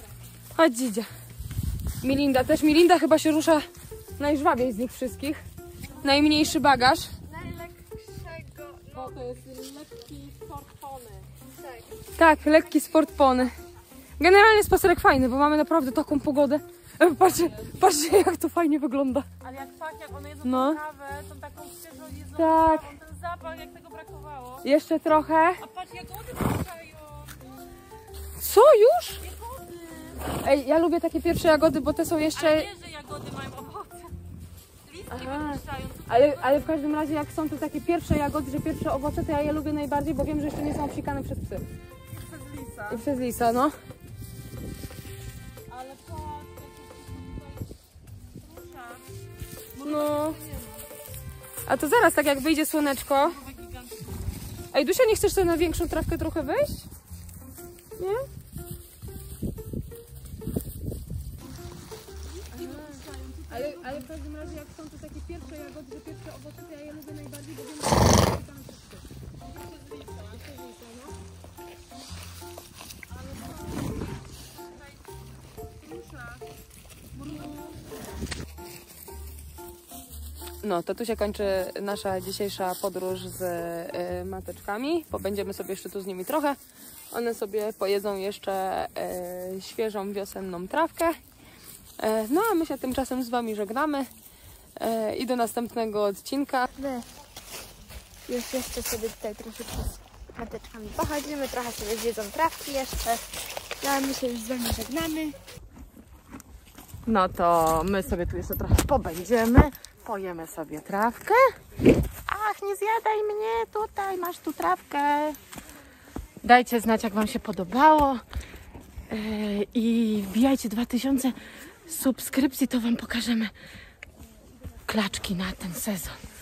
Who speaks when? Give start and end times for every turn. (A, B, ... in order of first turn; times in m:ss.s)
0:00.6-0:01.1 A
0:02.0-0:03.6 A
0:04.2-0:05.4 A
0:06.0-0:07.1 A
0:07.4-0:08.6 B
0:08.7-0:11.3 C
0:12.2-0:13.6 A
0:14.2-0:19.3 A
0:17.3-0:17.7 C
0:19.4-0:24.7 C
0:20.4-0:20.8 A
0:22.4-0:22.9 A
0:24.6-0:25.6 A
0:25.6-0:27.4 C
0:28.4-0:29.2 A
0:29.2-0:30.4 C
0:30.4-0:32.7 A
0:32.3-0:34.1 C
0:34.8-0:36.7 C
0:35.1-0:41.6 A
0:42.3-0:43.0 C
0:42.9-0:43.8 A
0:45.7-0:47.3 C
0:48.5-0:49.0 C
0:49.8-0:50.8 C
0:49.8-0:50.4 A
0:51.7-0:53.4 A
0:53.2-0:53.9 C
0:54.7-0:56.9 A
0:58.0-0:58.3 A
1:02.5-1:11.2 A
1:13.1-1:14.2 A
1:15.8-1:16.4 A
1:17.2-1:17.7 A
1:20.6-1:26.6 A
1:27.1-1:31.2 A
1:32.0-1:34.1 A
1:34.8-1:36.7 A
1:36.8-1:37.0 B
1:38.3-1:43.2 B
1:43.8-1:45.4 B
1:47.1-1:51.4 C
1:52.3-1:55.4 C
1:56.4-1:58.2 C
1:59.1-2:03.5 C
2:04.9-2:06.2 C